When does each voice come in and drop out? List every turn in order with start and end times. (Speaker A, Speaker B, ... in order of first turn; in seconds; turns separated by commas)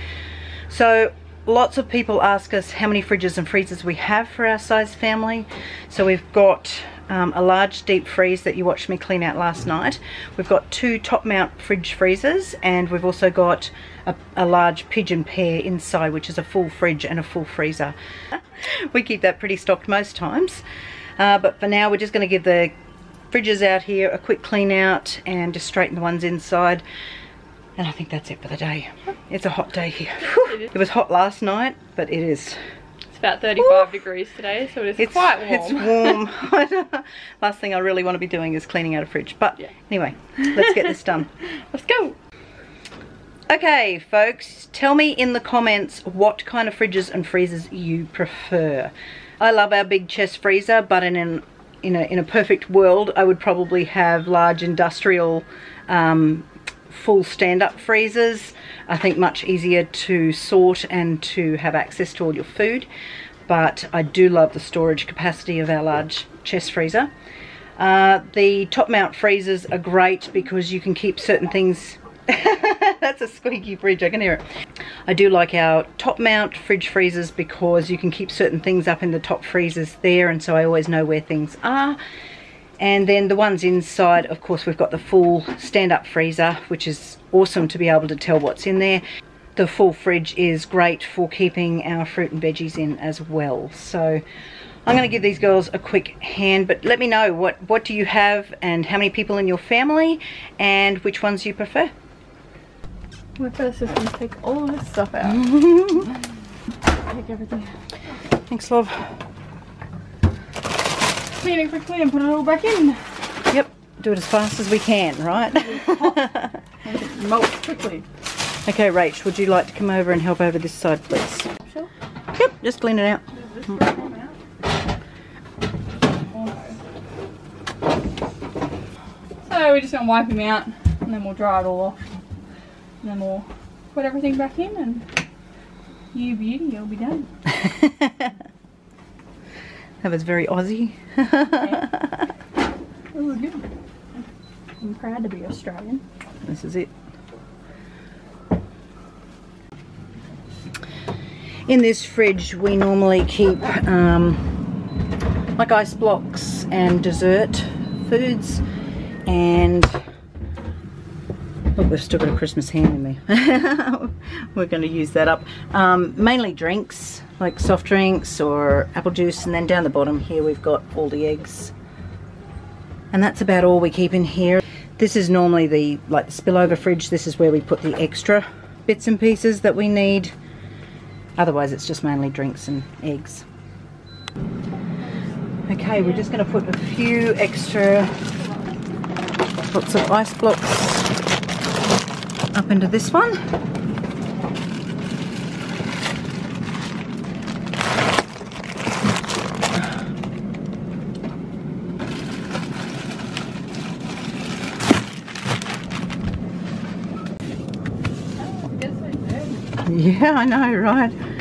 Speaker A: 0.7-20.6, Speaker A: 21.2-22.7, Speaker A: 23.3-26.8, Speaker A: 27.8-32.6, Speaker B: 30.3-30.7, Speaker B: 33.1-36.2, Speaker A: 35.0-41.3, Speaker B: 40.4-42.2, Speaker A: 43.5-62.9, Speaker A: 63.5-67.1, Speaker A: 67.8-74.5, Speaker A: 75.1-82.0, Speaker A: 82.8-89.0, Speaker A: 89.6-94.2, Speaker A: 94.9-101.9, Speaker B: 103.4-105.5, Speaker A: 105.2-106.1, Speaker B: 107.1-107.7, Speaker A: 108.4-109.1, Speaker B: 111.4-113.0, Speaker A: 113.5-116.7, Speaker B: 115.7-116.1, Speaker B: 116.8-118.0, Speaker A: 118.7-121.5, Speaker A: 122.3-123.3, Speaker B: 123.3-124.4, Speaker B: 126.3-126.8, Speaker B: 129.4-132.0, Speaker B: 133.0-135.1, Speaker B: 136.1-137.3, Speaker A: 137.5-138.3, Speaker A: 140.0-142.2, Speaker B: 143.1-143.7, Speaker B: 144.8-146.0, Speaker A: 146.4-146.9, Speaker A: 151.7-154.7, Speaker A: 155.6-158.6, Speaker A: 159.3-160.1, Speaker A: 161.8-171.7, Speaker A: 173.1-180.3, Speaker A: 181.4-183.4, Speaker A: 185.7-188.1, Speaker A: 189.7-191.1, Speaker A: 192.5-193.4, Speaker B: 208.4-209.6, Speaker A: 209.8-211.2